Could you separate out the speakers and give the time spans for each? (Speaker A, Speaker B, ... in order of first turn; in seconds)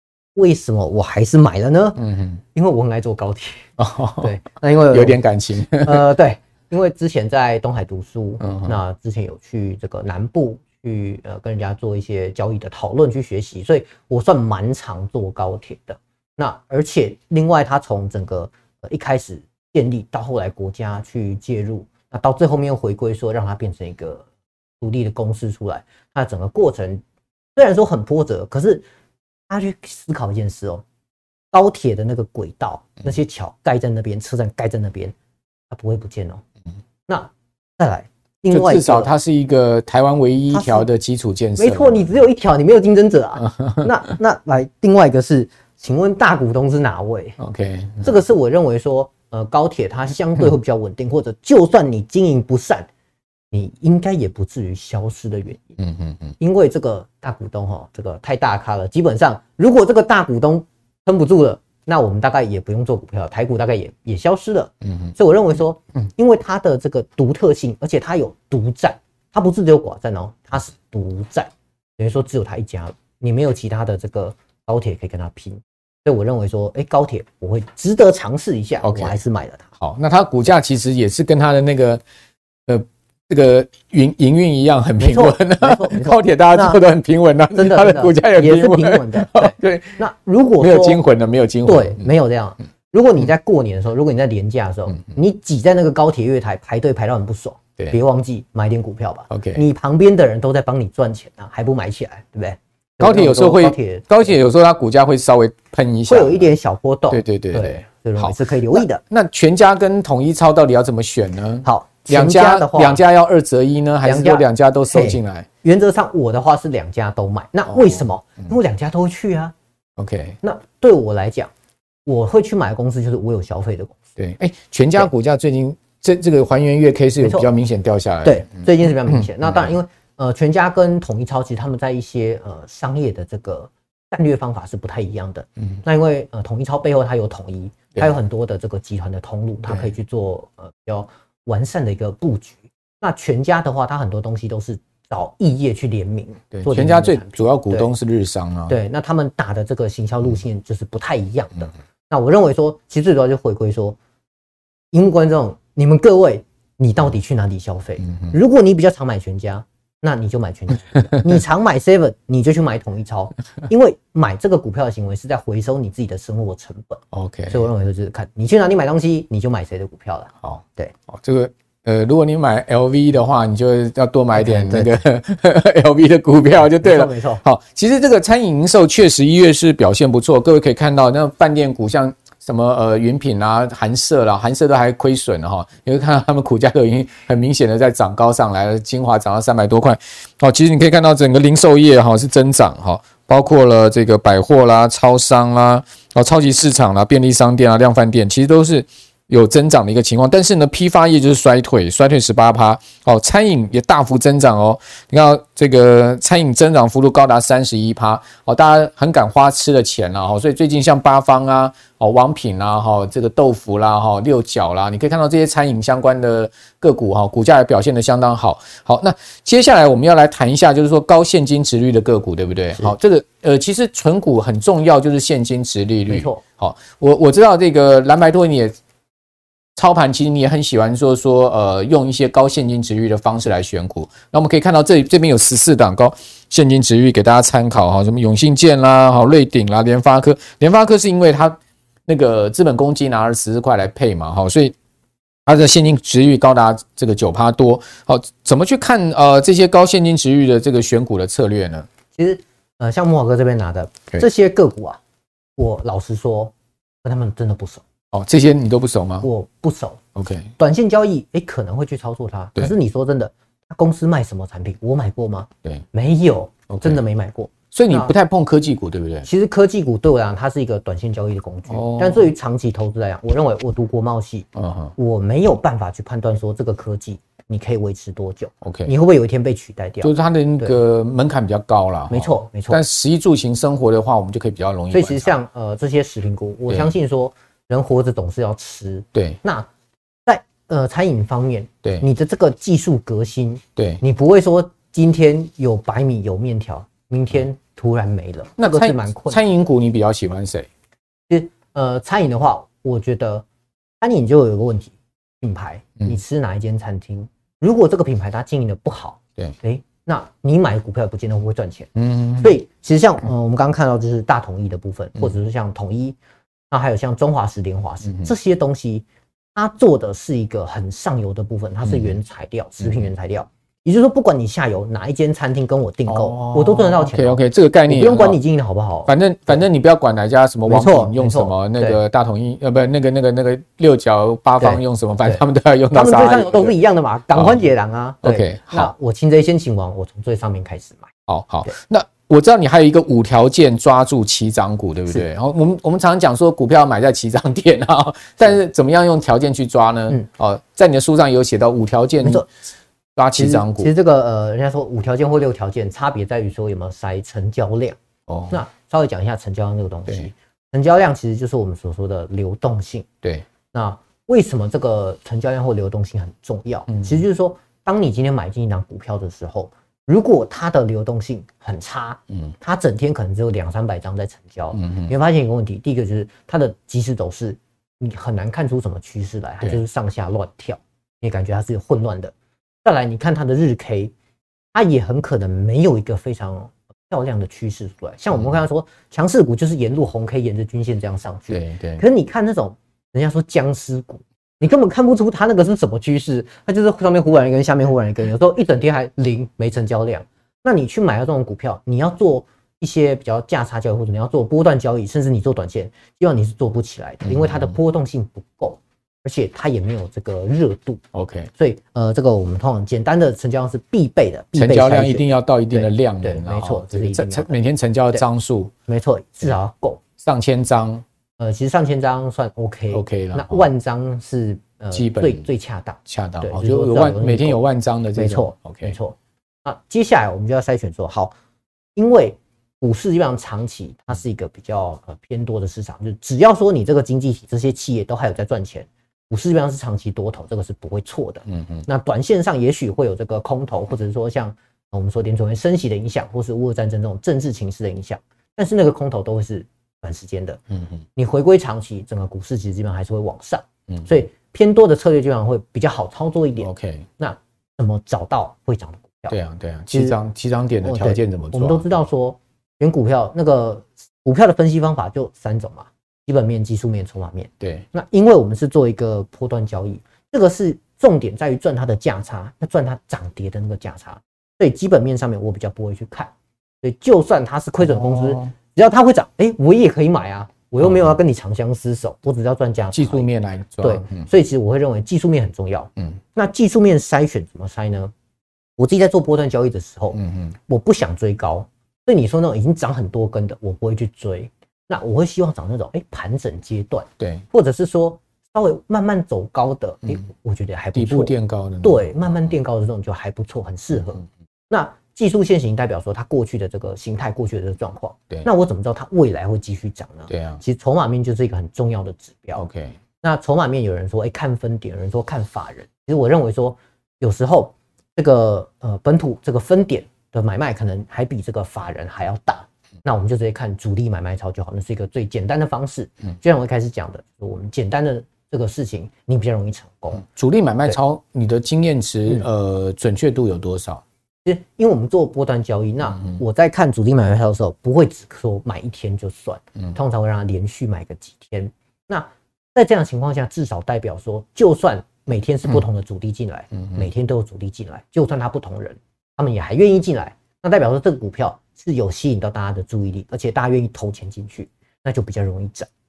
Speaker A: 0.3-5.2, 5.7-24.2, 24.8-27.0, 27.6-28.8, 29.5-30.8, 31.5-35.1, 35.7-36.4, 37.1-39.1, 40.5-40.9, 41.6-47.4, 48.0-52.9, 53.5-55.8, 56.4-79.7, 85.0-86.8, 87.5-91.0, 91.7-104.4, 106.1-109.0, 111.6-113.0, 114.0-119.5, 120.4-121.5, 122.1-124.0, 127.2-127.5, 128.2-147.9, 148.7-154.0, 154.9-170.9, 174.3-174.9, 176.8-177.4, 226.1-226.4, 252.2-255.0, 255.6-256.5, 257.0-257.8, 259.2-260.0, 260.6-268.1, 269.2-280.8, 282.1-282.8, 284.9-289.7, 290.2-299.4, 301.3-303.4, 304.0-316.1, 316.7-329.6, 330.6-332.0, 334.6-335.4, 335.9-341.1, 353.4-358.0, 358.5-363.1, 363.7-382.3, 382.8-384.1, 384.7-411.0, 411.6-417.5, 418.9-420.0, 421.4-427.6, 428.1-431.3, 432.0-450.6, 451.1-459.4, 460.8-476.3, 476.8-483.3, 483.8-488.1, 488.8-512.6, 513.2-530.2, 534.4-555.9
Speaker B: 2.0-2.4, 3.8-4.3, 4.9-6.1, 8.4-8.8, 38.5-42.1, 43.6-43.8, 47.4-48.1, 55.8-56.3, 78.8-79.2, 79.8-82.0, 82.7-90.0, 90.6-92.1, 99.3-99.6, 103.0-106.5, 107.1-115.5, 117.7-118.0, 120.0-120.4, 124.2-129.7, 146.5-148.8, 167.1-167.6, 170.4-228.8, 229.8-244.8, 245.5-251.9, 258.1-259.3, 260.1-260.5, 266.7-267.0, 267.7-269.3, 271.7-272.3, 274.6-274.9, 278.6-278.9, 280.0-285.3, 293.8-294.0, 298.6-300.7, 312.0-312.5, 321.9-322.1, 326.1-328.4, 329.1-336.8, 338.2-338.9, 341.3-352.5, 353.1-353.9, 358.3-358.6, 366.9-367.2, 374.8-375.1, 391.5-392.0, 407.2-407.7, 411.1-411.5, 414.6-418.7, 420.2-421.1, 422.9-423.7, 424.9-425.5, 426.1-428.9, 441.5-441.8, 456.6-457.1, 459.3-462.0, 467.6-467.9, 477.8-478.5, 482.9-484.2, 490.1-490.5, 500.9-502.5, 510.3-510.6, 512.6-512.9, 530.2-534.0